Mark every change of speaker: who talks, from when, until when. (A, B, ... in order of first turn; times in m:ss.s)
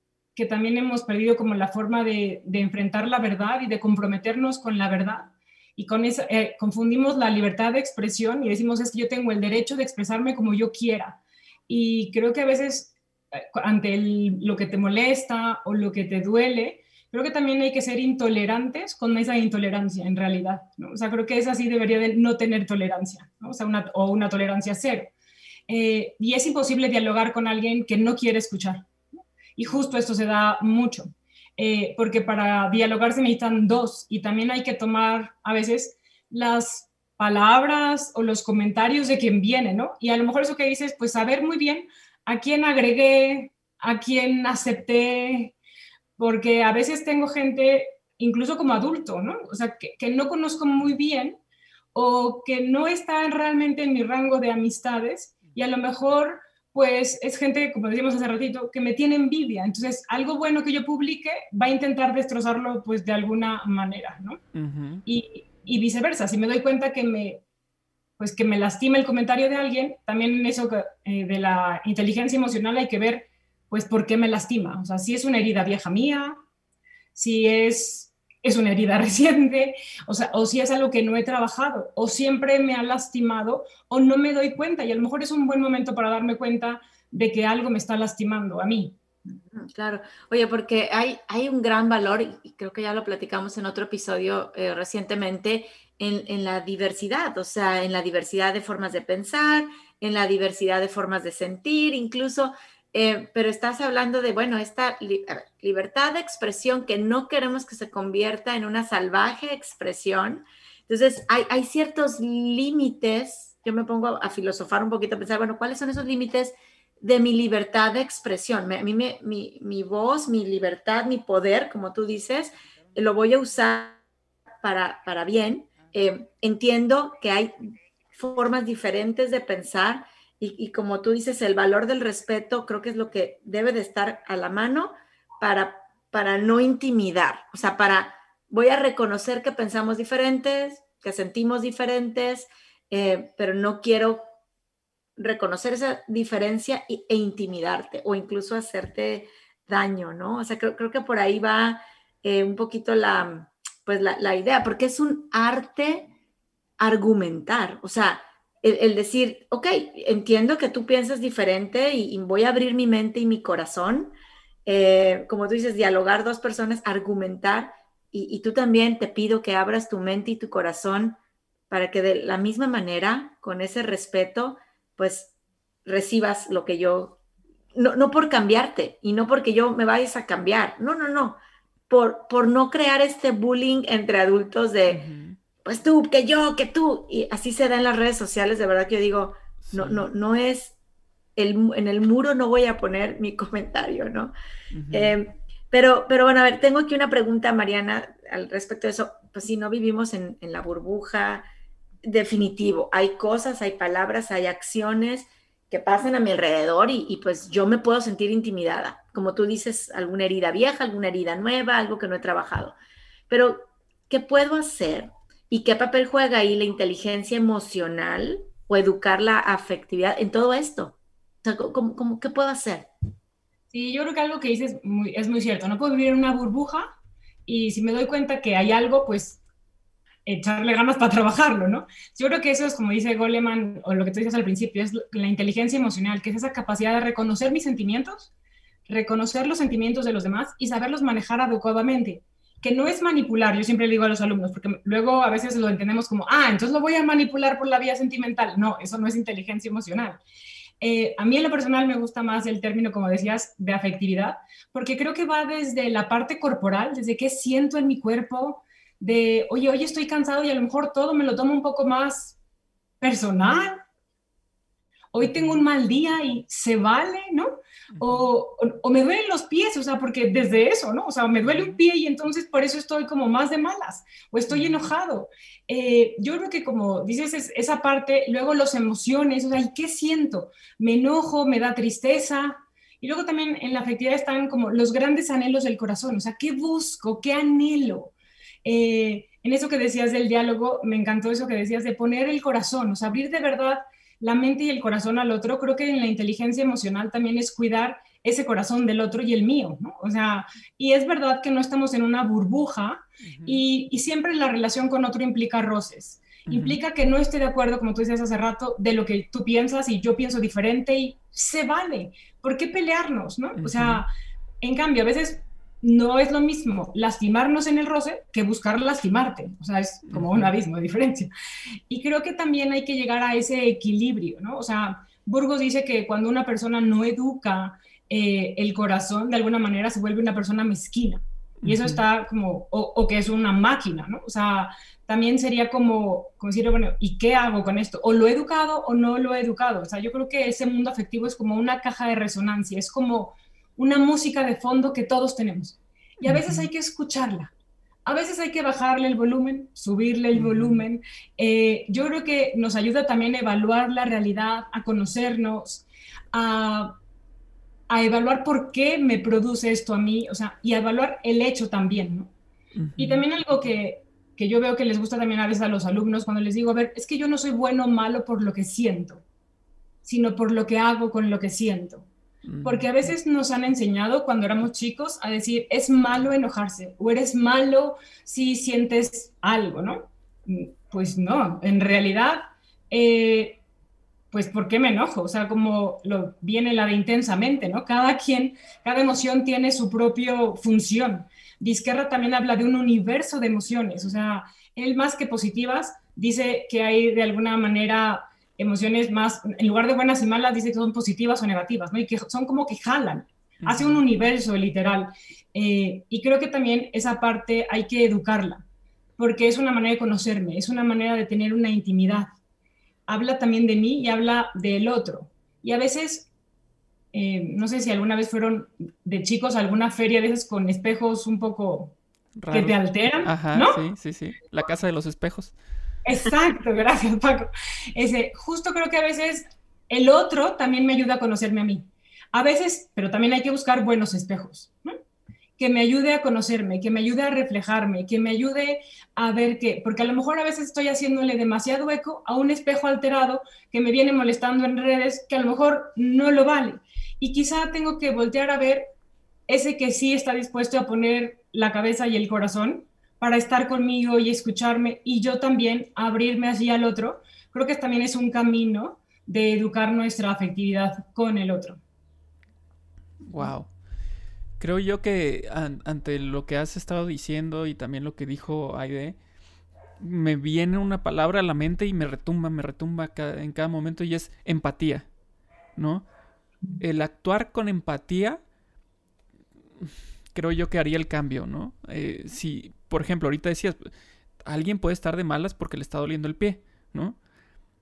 0:00.3-0:25.1 A
0:25.7-0:28.9 A
0:29.6-0:45.5 A
0:46.2-0:51.4 A
0:51.9-1:04.4 A
1:04.5-1:05.0 B
1:05.0-1:07.4 A
1:08.2-1:16.4 A
1:17.1-1:28.9 A
1:29.2-2:04.0 C
2:04.6-2:07.5 C
2:08.1-2:24.2 C
2:25.2-2:36.1 C
2:36.8-2:44.1 C
2:44.6-2:51.2 C
2:51.7-2:55.3 C
2:55.8-2:57.2 C
2:57.7-3:05.0 C
3:04.9-3:05.4 B
3:05.6-3:10.7 C
3:09.6-3:10.0 B
3:11.4-3:14.3 C
3:14.7-3:15.1 B
3:14.9-3:21.5 C
3:22.0-3:32.8 C
3:33.3-3:42.9 C
3:43.7-3:46.9 A
3:47.4-3:49.4 A
3:50.2-3:58.3 A
3:58.9-4:10.2 A
4:10.8-4:22.4 A
4:23.0-4:23.8 A
4:25.1-4:48.1 A
4:25.2-4:25.6 B
4:27.9-4:28.3 B
4:31.4-4:31.8 B
4:34.5-4:34.9 B
4:48.6-5:14.1 A
5:03.2-5:03.6 B
5:06.5-5:06.8 B
5:13.6-5:14.0 B
5:14.6-5:21.3 A
5:20.1-5:20.5 B
5:21.9-5:47.5 A
5:31.6-5:32.0 B
5:46.2-5:46.7 B
5:48.0-5:57.0 A
5:50.3-5:50.8 B
5:57.9-6:02.3 A
6:02.8-6:03.2 B
6:03.0-6:09.2 A
6:10.0-6:12.1 A
6:12.4-6:12.9 B
6:12.6-6:23.6 A
6:24.3-6:48.6 A
6:43.6-6:44.0 B
6:49.2-6:52.3 A
6:53.1-6:56.3 A
6:57.1-7:01.9 A
7:02.4-7:05.5 B
7:02.5-7:03.8 A
7:06.0-7:15.0 A
7:15.6-7:28.9 A
7:29.5-7:41.8 A
7:43.2-7:43.7 B
7:44.6-7:49.2 B
7:50.0-7:55.1 B
7:55.8-7:56.0 B
7:56.8-7:58.4 B
7:59.8-8:03.9 B
8:04.4-8:07.2 B